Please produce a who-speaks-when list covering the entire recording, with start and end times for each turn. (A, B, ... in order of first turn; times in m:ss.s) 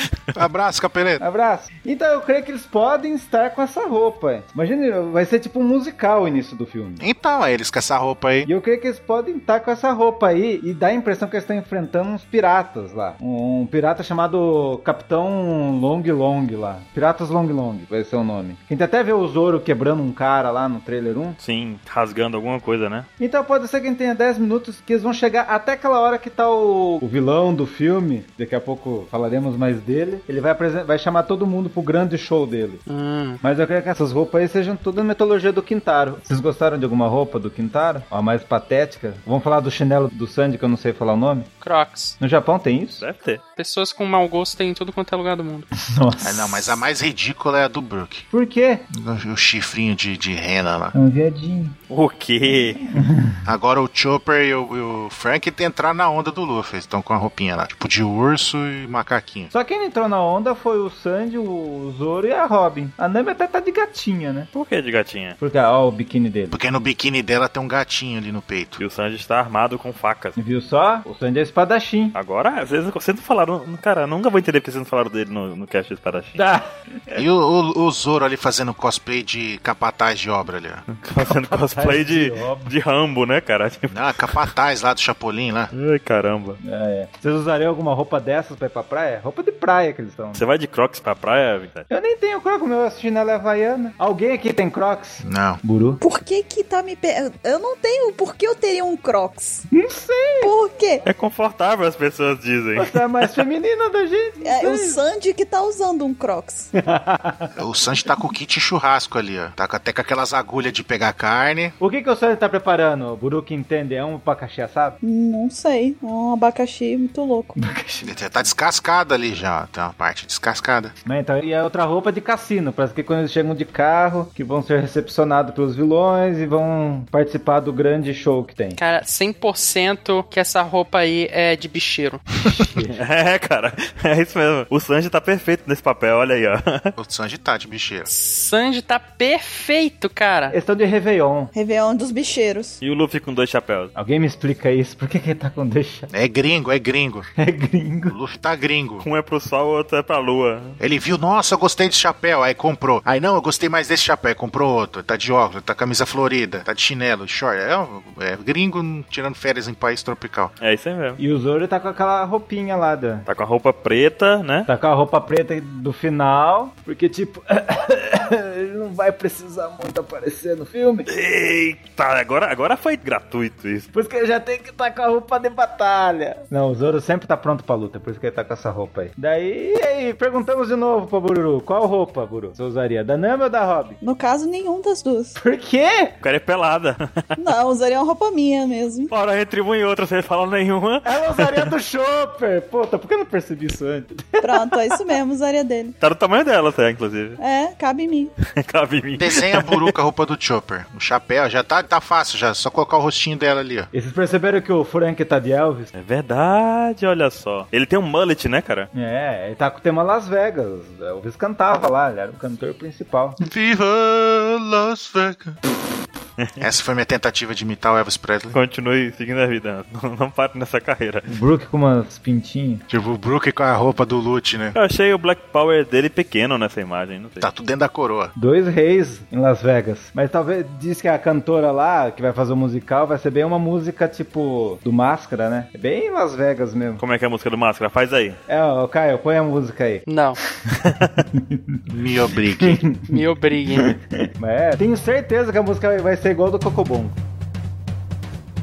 0:00.3-0:01.2 A
0:01.2-0:07.0 B
0:07.0-0:08.5 A
0:08.4-0:21.4 B
0:21.4-0:23.1 C
0:23.2-0:32.8 B
0:32.9-0:33.4 D
0:33.4-0:41.5 B
0:41.6-0:42.2 D
0:42.2-0:43.0 B
0:43.0-0:43.4 C
0:43.6-0:45.7 D
0:45.8-0:46.8 B
0:46.2-0:48.3 A
0:48.3-0:48.9 B
0:48.9-0:51.0 A
0:50.9-0:51.8 B
0:51.9-0:52.8 C
0:52.4-0:53.4 B
0:53.4-0:59.5 A
0:59.5-1:04.5 B
1:04.5-1:05.4 C
1:05.4-1:06.6 B
1:06.5-1:08.8 A
1:08.8-1:10.4 C
1:10.4-1:12.2 B
1:12.2-1:16.4 C
1:16.4-1:17.2 B
1:17.2-1:20.8 A
1:20.9-1:24.4 C
1:21.2-1:22.7 B
1:23.9-1:25.7 A
1:25.7-1:26.6 C
1:26.6-1:30.4 B
1:30.4-1:31.9 C
1:31.9-1:36.0 B
1:35.2-1:35.6 A
1:36.0-1:39.7 E
1:39.8-1:40.5 B
1:40.4-1:41.0 E
1:41.0-1:43.0 C
1:42.8-1:45.0 B
1:44.4-1:46.7 E
1:46.8-1:47.6 B
1:47.6-1:51.8 A
1:51.8-1:55.0 B
1:55.0-1:57.6 E
1:57.6-1:58.1 B
1:58.0-2:00.9 A
2:01.0-2:08.8 B
2:08.8-2:12.2 D
2:12.4-2:13.0 B
2:12.9-2:16.9 C
2:17.0-2:18.1 A
2:18.1-2:20.6 D
2:20.5-2:21.5 B
2:21.5-2:22.8 E
2:22.8-2:23.9 C
2:24.0-2:26.1 B
2:26.1-2:27.3 A
2:27.4-2:28.2 B
2:28.1-2:29.1 A
2:29.0-2:30.8 C
2:30.8-2:40.5 A
2:40.6-2:41.2 C
2:41.2-2:43.3 B
2:43.3-2:44.7 C
2:44.7-2:51.1 B
2:51.1-2:53.9 C
2:53.9-3:04.0 B
3:04.0-3:05.4 E
3:05.4-3:06.2 B
3:06.2-3:07.3 C
3:07.4-3:09.1 E
3:09.1-3:11.7 C
3:11.0-3:15.1 B
3:14.4-3:16.0 E
3:16.0-3:17.4 C
3:17.4-3:18.3 E
3:18.6-3:20.0 C
3:19.2-3:23.9 A
3:23.9-3:25.9 B
3:25.9-3:28.9 C
3:28.9-3:33.4 B
3:33.4-3:35.6 A
3:36.4-3:36.6 C
3:36.6-3:38.6 A
3:38.5-3:41.3 C
3:41.3-3:42.8 B
3:42.9-3:44.8 A
3:44.7-3:47.5 C
3:47.4-3:48.3 A
3:48.4-3:57.0 B
3:57.0-3:58.4 C
3:58.5-4:00.0 B
4:00.1-4:00.4 D
4:01.2-4:01.8 B
4:01.9-4:02.8 A
4:02.6-4:07.2 B
4:03.1-4:03.9 D